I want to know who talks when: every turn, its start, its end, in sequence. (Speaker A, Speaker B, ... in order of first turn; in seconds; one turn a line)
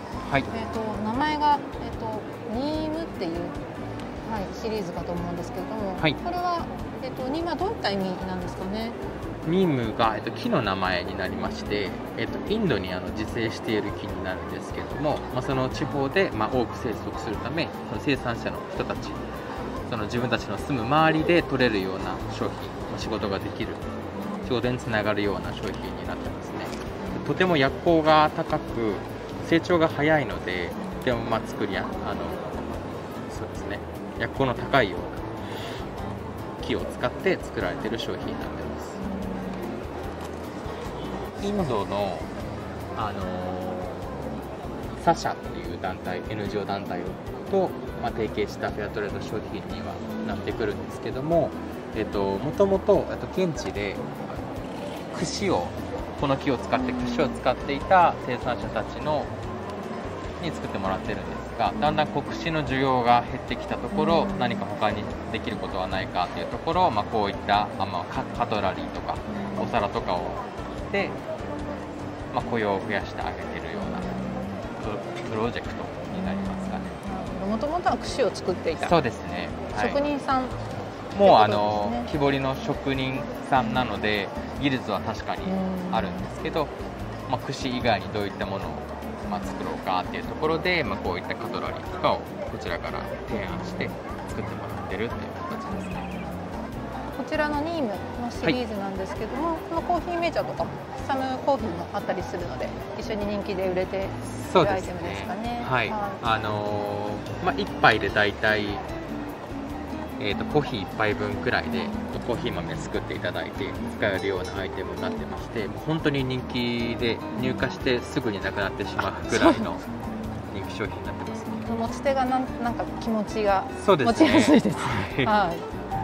Speaker A: 0.2-0.5
Speaker B: 0.5-3.6
Speaker B: 4.2-9.0
Speaker A: 9.4-19.2
Speaker A: 19.9-23.9
Speaker B: 24.2-24.5
Speaker A: 24.4-35.3
Speaker B: 27.0-27.3
Speaker A: 36.6-39.0
Speaker B: 39.1-39.6
Speaker A: 41.4-42.3
Speaker A: 43.0-44.4
Speaker A: 45.0-54.4
Speaker A: 55.1-59.3
Speaker B: 56.7-57.4
Speaker A: 60.4-71.2
Speaker B: 61.8-62.1
Speaker B: 63.9-64.6
Speaker B: 69.3-69.7
Speaker A: 72.3-74.2
Speaker B: 73.8-74.6
Speaker A: 74.8-76.9
Speaker B: 76.1-78.9
Speaker A: 78.8-80.0
Speaker B: 79.7-80.6
Speaker A: 81.2-86.7
Speaker B: 81.2-82.1
Speaker B: 85.5-86.3
Speaker A: 87.3-96.1
Speaker B: 93.6-93.9
Speaker B: 97.1-106.2
Speaker A: 104.2-108.8
Speaker A: 110.2-119.8
Speaker B: 119.3-119.7
Speaker A: 120.5-121.7
Speaker B: 121.7-125.7
Speaker A: 123.8-125.3